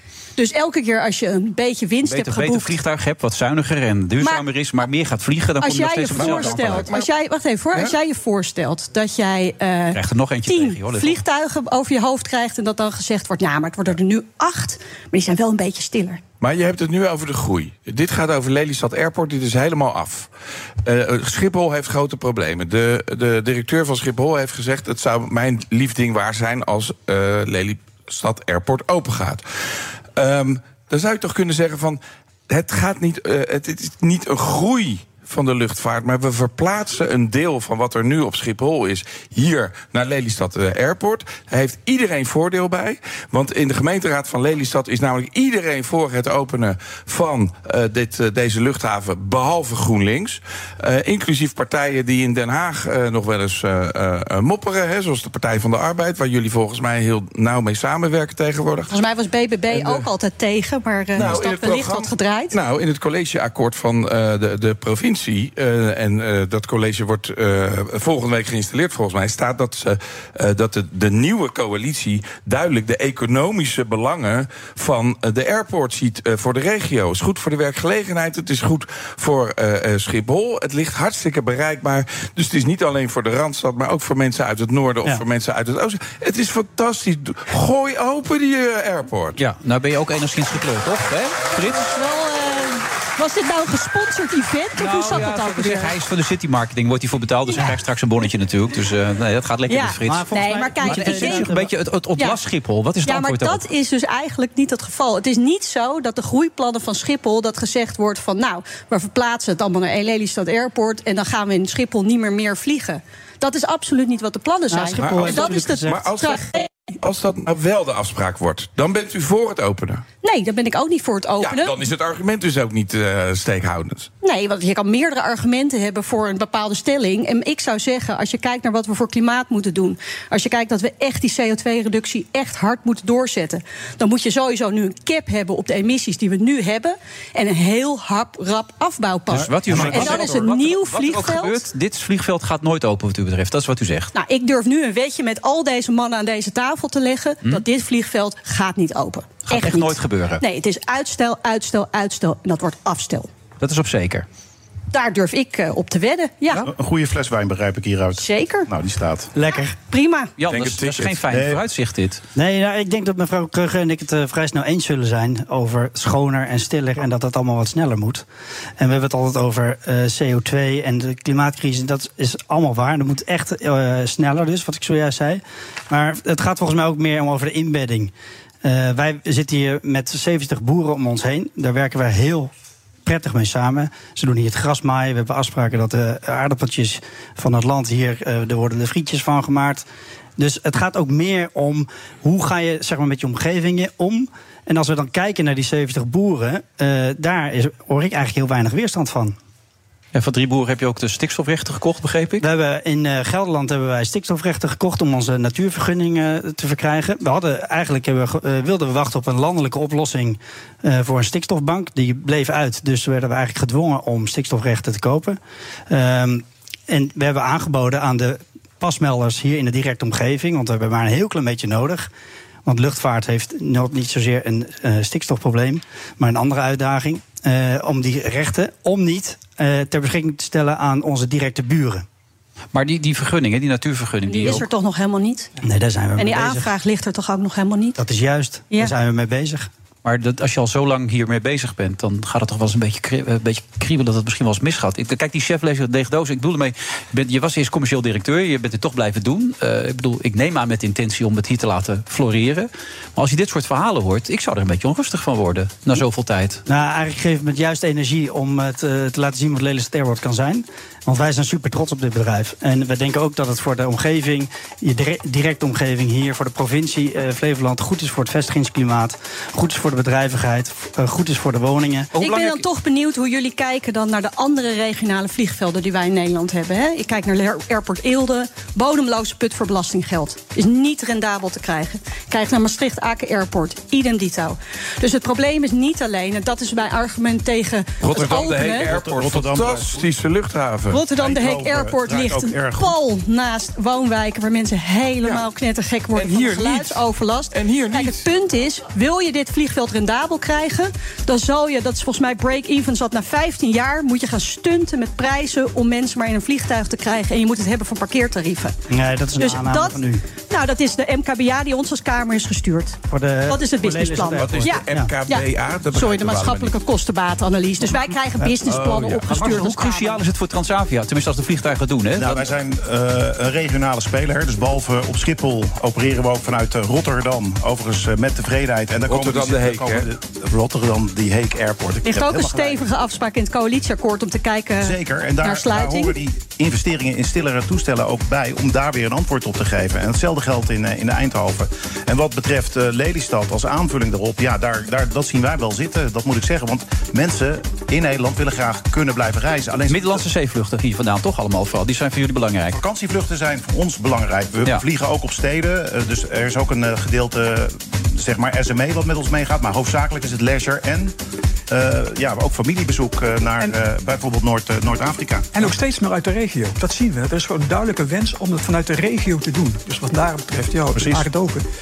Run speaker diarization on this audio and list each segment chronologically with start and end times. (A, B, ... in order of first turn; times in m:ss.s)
0:00.4-0:02.8 A
0:02.0-0:06.9 B
0:05.6-0:16.2 A
0:06.2-0:07.1 C
0:09.9-0:11.2 B
0:16.4-0:20.3 C
0:20.8-0:29.4 C
0:30.2-0:58.9 C
0:58.9-1:02.6 A
0:59.7-1:00.1 C
1:01.1-1:29.4 C
1:29.4-1:31.9 B
1:31.6-1:36.0 A
1:34.8-1:43.6 B
1:39.7-1:41.5 A
1:40.1-1:41.7 D
1:43.0-1:56.5 A
1:54.7-1:56.0 D
1:55.0-2:00.0 C
2:00.2-2:01.8 A
2:01.4-2:04.1 C
2:04.2-2:21.6 A
2:19.3-2:24.1 B
2:19.8-2:20.1 D
2:24.1-2:33.3 A
2:29.5-2:30.4 B
2:33.6-2:34.3 B
2:34.9-2:36.7 A
2:36.7-2:39.3 E
2:38.2-2:38.7 A
2:39.4-2:39.8 D
2:39.9-2:40.3 A
2:40.4-2:42.2 B
2:40.5-2:41.2 C
2:41.3-2:41.6 E
2:42.4-2:48.3 D
2:48.8-2:58.1 D
2:58.6-3:02.5 D
3:03.0-3:09.9 D
3:10.4-3:19.4 D
3:20.1-3:22.4 B
3:22.4-3:42.1 D
3:42.6-3:52.0 D
3:52.7-3:54.7 B
3:54.3-3:55.5 A
3:55.6-3:56.8 D
3:56.2-3:58.0 A
3:58.0-3:59.7 D
4:00.0-4:16.6 B
4:16.7-4:32.1 D
4:32.1-4:32.6 B
4:32.2-4:48.9 A
4:48.0-4:51.0 C
4:48.3-4:50.1 E
4:50.9-5:08.8 A
4:51.1-4:53.0 E
4:56.2-4:58.2 C
5:08.9-5:10.2 D
5:09.4-5:20.2 A
5:13.1-5:15.1 D
5:14.4-5:16.7 C
5:18.6-5:19.5 C
5:19.2-5:22.4 B
5:22.2-5:32.8 E
5:29.1-5:30.1 C
5:32.0-5:36.2 A
5:34.8-5:50.2 E
5:49.9-5:52.8 B
5:52.8-6:01.2 E
6:01.7-6:05.6 E
6:05.5-6:11.6 F
6:11.0-6:11.2 E